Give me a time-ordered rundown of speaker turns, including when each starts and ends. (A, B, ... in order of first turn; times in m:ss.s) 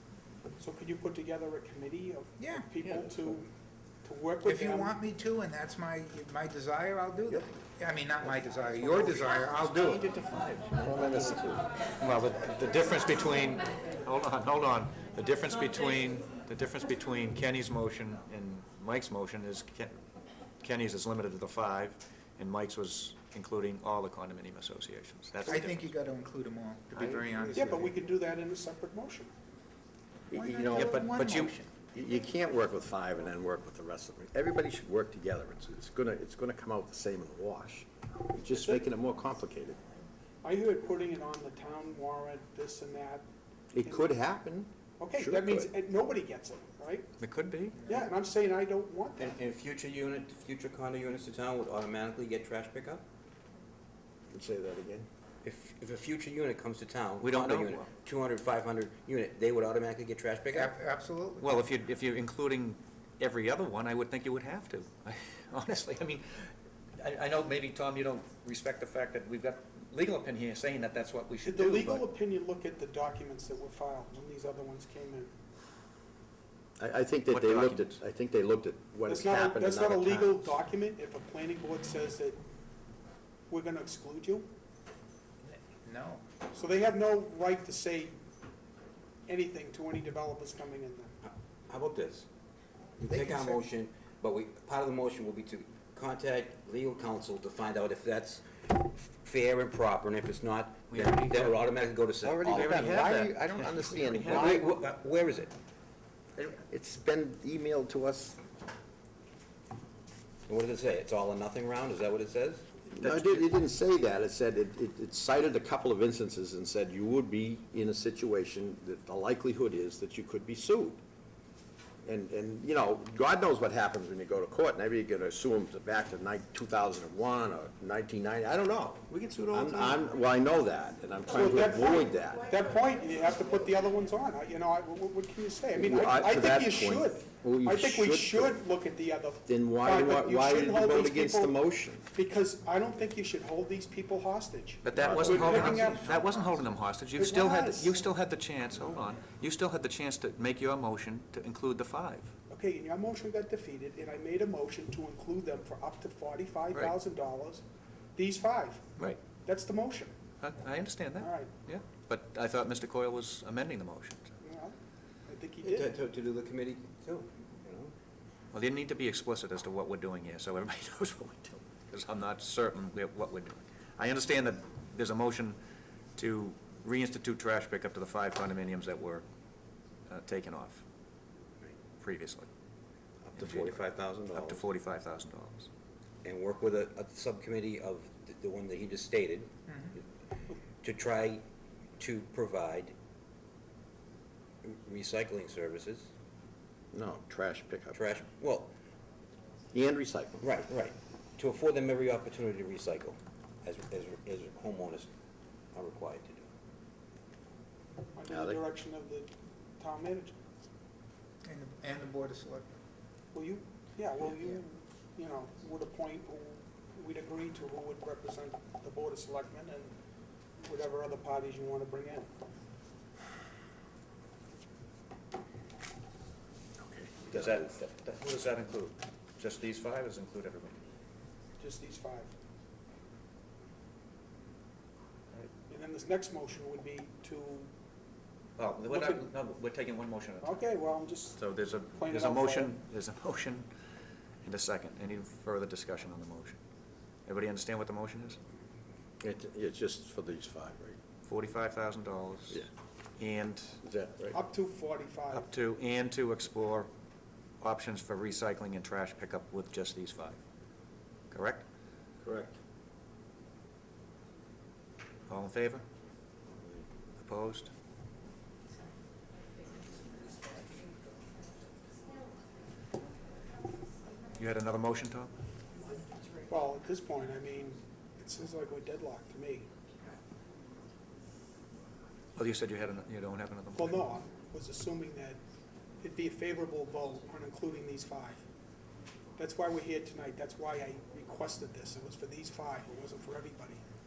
0:00.6-0:03.5 A
0:02.4-0:02.7 B
0:04.0-0:04.9 A
0:04.4-0:10.1 B
0:08.7-0:11.4 C
0:10.7-0:11.6 D
0:12.0-0:20.0 C
0:20.6-0:25.9 C
0:25.4-0:27.9 B
0:26.9-0:27.3 C
0:27.4-0:29.3 A
0:30.3-0:31.1 D
0:30.3-0:31.7 B
0:30.7-0:31.5 C
0:31.9-0:39.8 D
0:38.5-0:38.8 A
0:40.4-0:43.2 A
0:43.7-0:45.7 D
0:43.8-0:44.1 A
0:45.0-0:47.1 A
0:47.2-0:47.8 C
0:47.8-0:49.3 A
0:49.2-0:53.0 E
0:54.3-0:55.1 D
0:55.4-1:00.7 E
0:57.2-0:57.9 C
1:00.5-1:01.6 B
1:01.4-1:12.0 C
1:11.4-1:15.3 A
1:16.8-1:20.6 D
1:17.3-1:18.0 C
1:19.0-1:22.4 A
1:23.5-1:24.5 A
1:25.4-1:26.2 B
1:26.5-1:28.2 A
1:29.3-1:31.2 A
1:31.2-1:32.3 E
1:33.0-1:43.1 E
1:40.9-1:41.6 C
1:42.2-1:44.6 D
1:42.4-1:44.7 C
1:44.2-1:45.5 E
1:46.6-1:48.4 D
1:50.5-1:52.7 E
1:52.9-2:01.0 D
1:53.0-1:53.4 C
2:02.0-2:12.5 D
2:09.1-2:10.0 C
2:11.3-2:21.6 A
2:15.7-2:18.6 D
2:19.4-2:22.1 D
2:22.1-2:26.1 A
2:24.8-2:32.3 C
2:25.0-2:26.1 D
2:25.0-2:25.7 E
2:27.1-2:28.0 A
2:32.5-2:37.6 A
2:38.1-2:40.1 A
2:40.4-2:44.4 C
2:41.2-2:41.5 A
2:44.4-2:45.9 A
2:45.6-2:47.9 E
2:48.5-2:55.6 C
2:56.2-2:59.2 C
3:00.1-3:00.8 C
3:02.0-3:02.5 C
3:03.2-3:04.6 E
3:03.4-3:05.7 C
3:06.2-3:09.5 E
3:10.8-3:11.4 E
3:12.0-3:12.9 E
3:14.6-3:16.1 E
3:16.9-3:18.0 D
3:17.9-3:18.7 E
3:19.7-3:20.4 D
3:20.4-3:25.1 E
3:25.7-3:26.5 E
3:28.2-3:30.4 A
3:28.3-3:28.6 D
3:31.4-3:32.7 B
3:33.3-3:39.9 A
3:40.6-3:42.3 A
3:46.8-3:47.7 D
3:47.3-3:50.8 C
3:51.6-3:52.3 A
3:55.7-3:57.7 A
3:58.6-4:00.6 C
3:58.8-3:59.2 A
4:00.4-4:01.4 A
4:01.4-4:03.7 C
4:01.9-4:02.7 A
4:04.4-4:06.6 C
4:07.2-4:08.4 C
4:09.2-4:11.0 D
4:11.2-4:13.8 C
4:13.8-4:14.4 D
4:14.3-4:15.5 A
4:15.3-4:16.9 C
4:17.6-4:20.4 C
4:21.3-4:21.6 C
4:22.2-4:22.6 D
4:25.3-4:25.8 C
4:27.2-4:27.7 C
4:34.4-4:35.3 C
4:36.4-4:39.7 A
4:42.4-4:44.0 C
4:43.7-4:45.4 A
4:46.0-4:48.4 A
4:49.4-4:53.8 A